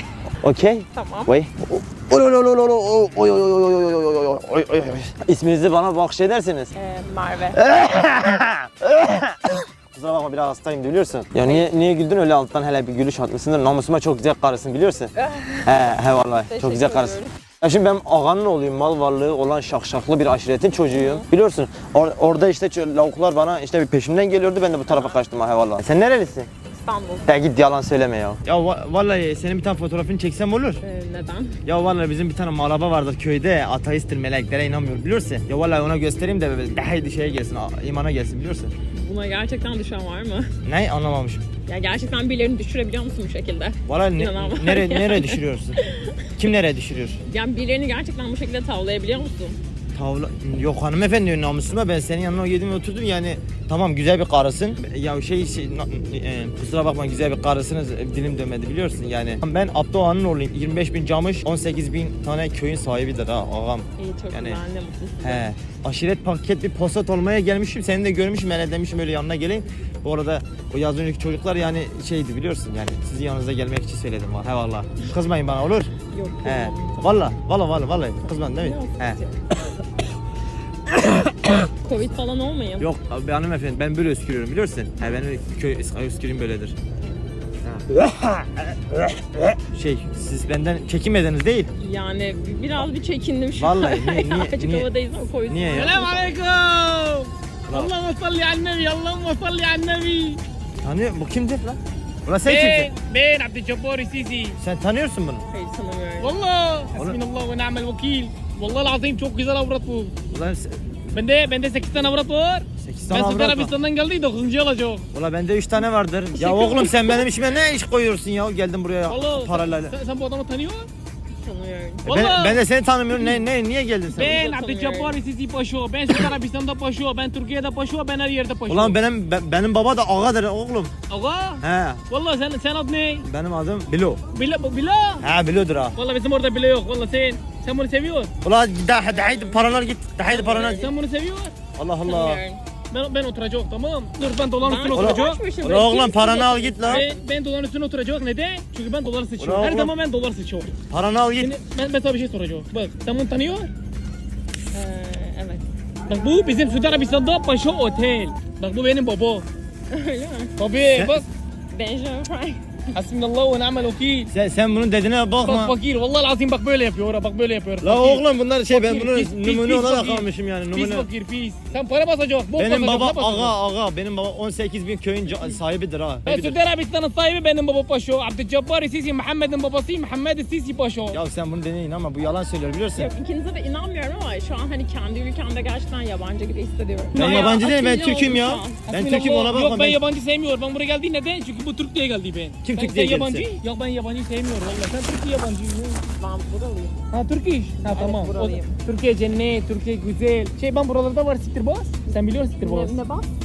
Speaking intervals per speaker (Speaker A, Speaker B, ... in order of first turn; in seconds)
Speaker A: 0.4-6.7, 7.5-15.1, 15.6-26.5, 27.3-30.8, 31.6-38.7, 40.6-41.5, 43.9-45.8, 46.4-47.2, 49.9-64.6, 65.2-75.9, 76.4-79.2, 80.9-81.5, 82.8-86.8, 87.6-87.9, 89.5-91.7, 93.6-94.9, 95.5-96.1, 97.7-97.9, 100.8-102.9, 104.6-105.5, 110.3-111.0, 112.8-113.7, 115.1-119.9, 122.0-124.4, 128.7-130.9, 131.6-132.0, 133.2-134.2, 135.2-135.9, 138.4-140.8, 141.8-142.4, 144.9-147.0, 149.4-149.9, 150.9-151.5, 164.3-165.7, 167.8-171.1, 172.6-176.6, 181.1-183.1, 187.2-190.0, 192.6-193.5
Speaker B: 0.9-1.3, 6.7-7.6, 15.2-15.7, 16.5-17.3, 20.9-21.3, 26.7-27.3, 30.8-31.6, 38.9-40.5, 41.6-46.2, 47.2-49.6, 64.0-65.4, 76.1-77.2, 78.5-79.3, 81.8-82.9, 91.8-96.3, 105.5-106.4, 116.4-117.3, 121.4-122.1, 124.2-125.2, 140.5-140.9, 142.1-142.6, 144.6-147.1, 154.7-155.6, 159.9-160.5, 161.7-162.8, 182.9-188.8, 196.0-197.0, 197.9-198.8, 202.6-203.3
Speaker C: 95.7-100.4, 102.4-104.6, 106.2-110.1, 111.1-115.1, 119.1-120.9, 122.1-123.4, 124.1-129.0, 131.1-133.3, 134.3-135.3, 135.9-138.3, 139.3-139.5, 140.3-141.5, 142.9-145.4, 146.8-150.7, 151.4-153.7, 156.1-159.5, 160.6-161.3, 162.9-164.3, 165.4-173.5, 176.2-181.2, 187.1-187.7, 188.8-196.0, 197.1-202.9